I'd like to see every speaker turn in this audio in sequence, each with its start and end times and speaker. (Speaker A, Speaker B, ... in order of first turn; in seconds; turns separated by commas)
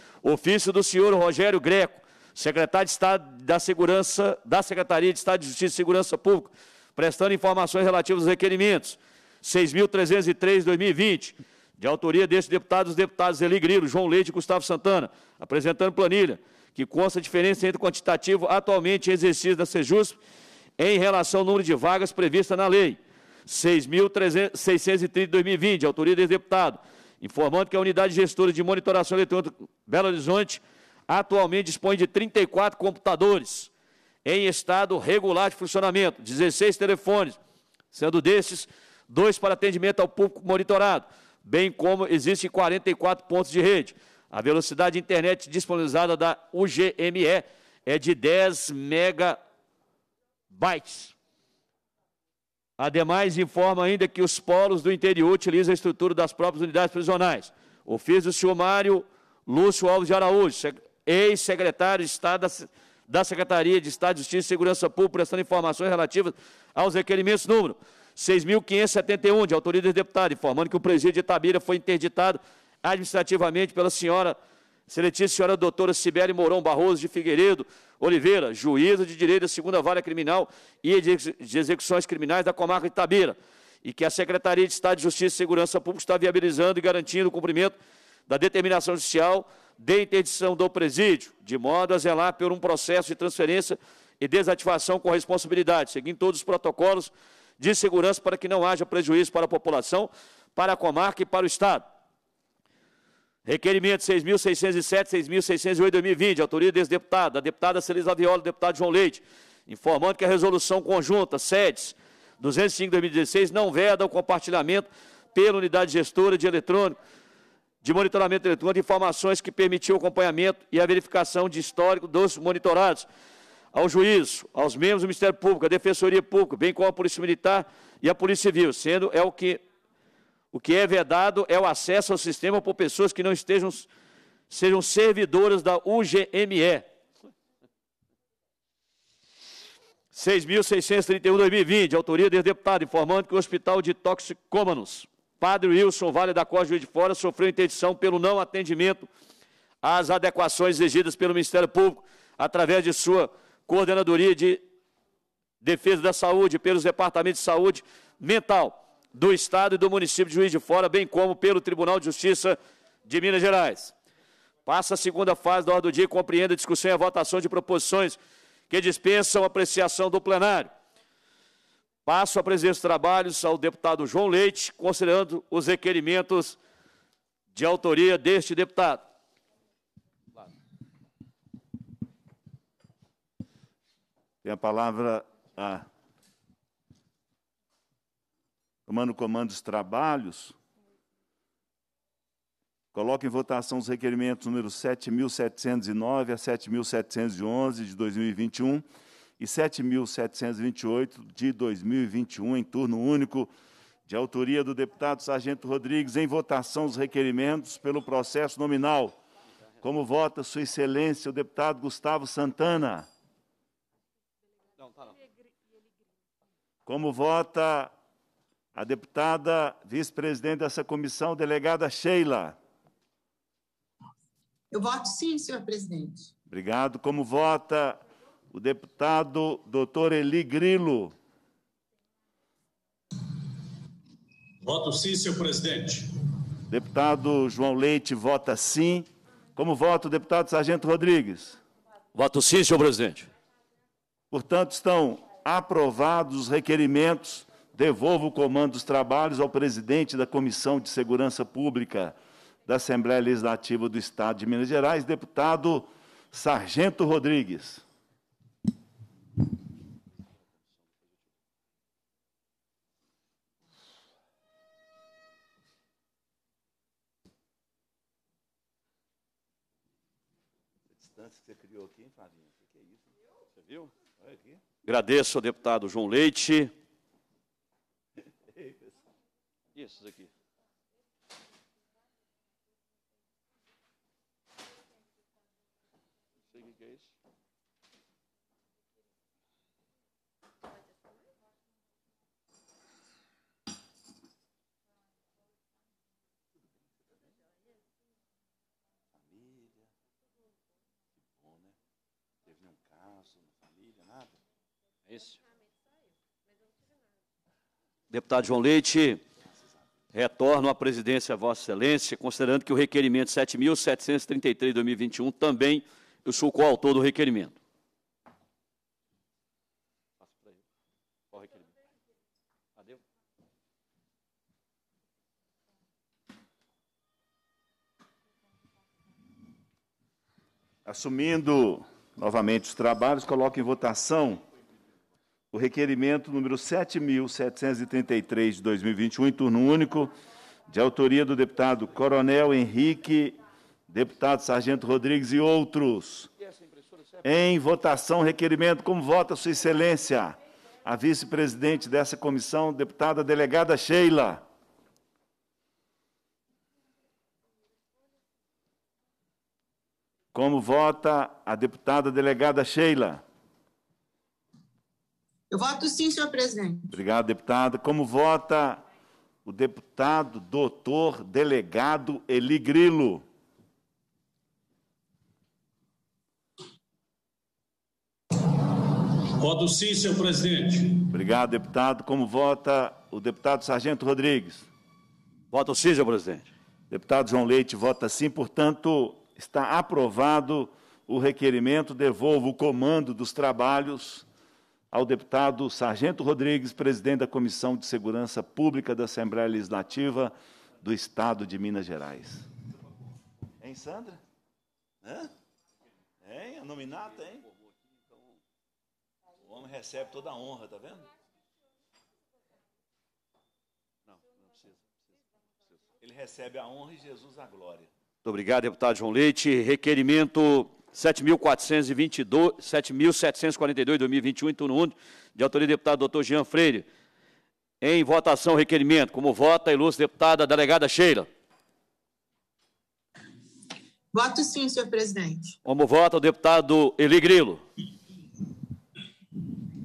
Speaker A: 0.2-20.2, Speaker A: 20.8-33.7, Speaker A: 34.2-37.4, Speaker A: 37.9-49.4, Speaker A: 50.5-51.1, Speaker A: 52.8-74.4, Speaker A: 74.9-87.8, Speaker A: 88.3-101.8, Speaker A: 103.5-117.0, Speaker A: 117.8-123.1, Speaker A: 123.7-129.6, Speaker A: 130.5-133.9, Speaker A: 134.5-136.9, Speaker A: 140.1-149.1, Speaker A: 149.8-154.6, Speaker A: 155.6-163.9, Speaker A: 164.7-168.2, Speaker A: 168.7-170.7, Speaker A: 172.1-176.6, Speaker A: 177.5-179.0, Speaker B: 184.4-185.8, Speaker B: 188.9-190.6, Speaker B: 192.9-198.8, Speaker B: 199.4-203.5, Speaker B: 204.1-209.2, Speaker B: 209.8-213.1, Speaker B: 216.9-217.9, Speaker B: 218.8-222.6, Speaker C: 224.7-226.3, Speaker B: 226.5-228.0, Speaker B: 228.5-231.1, Speaker D: 234.6-236.1, Speaker B: 236.7-241.6, Speaker A: 242.2-243.3, Speaker B: 244.3-252.2, Speaker B: 252.7-257.8, Speaker B: 270.9-273.0, Speaker B: 274.2-274.6, Speaker A: 274.9-276.7, Speaker B: 278.5-278.9, Speaker A: 279.8-280.2, Speaker B: 299.2-299.8, Speaker B: 301.4-301.7, Speaker B: 302.5-304.3, Speaker A: 308.1-309.2, Speaker A: 310.1-317.6, Speaker B: 330.9-334.4, Speaker B: 335.5-340.1, Speaker B: 340.7-343.4, Speaker B: 343.9-346.3, Speaker B: 347.2-354.4, Speaker B: 360.3-363.2, Speaker C: 365.5-366.9, Speaker B: 366.9-368.8, Speaker B: 369.4-373.2, Speaker D: 379.4-381.0, Speaker B: 381.1-384.7, Speaker A: 385.5-386.5, Speaker B: 386.9-394.3, Speaker B: 394.9-402.5, Speaker B: 403.6-404.2, Speaker B: 405.0-405.3, Speaker B: 406.2-407.5, Speaker B: 409.4-411.1, Speaker B: 416.0-417.9, Speaker A: 418.2-426.9, Speaker A: 427.8-431.3, Speaker C: 434.1-435.6, Speaker A: 435.6-437.6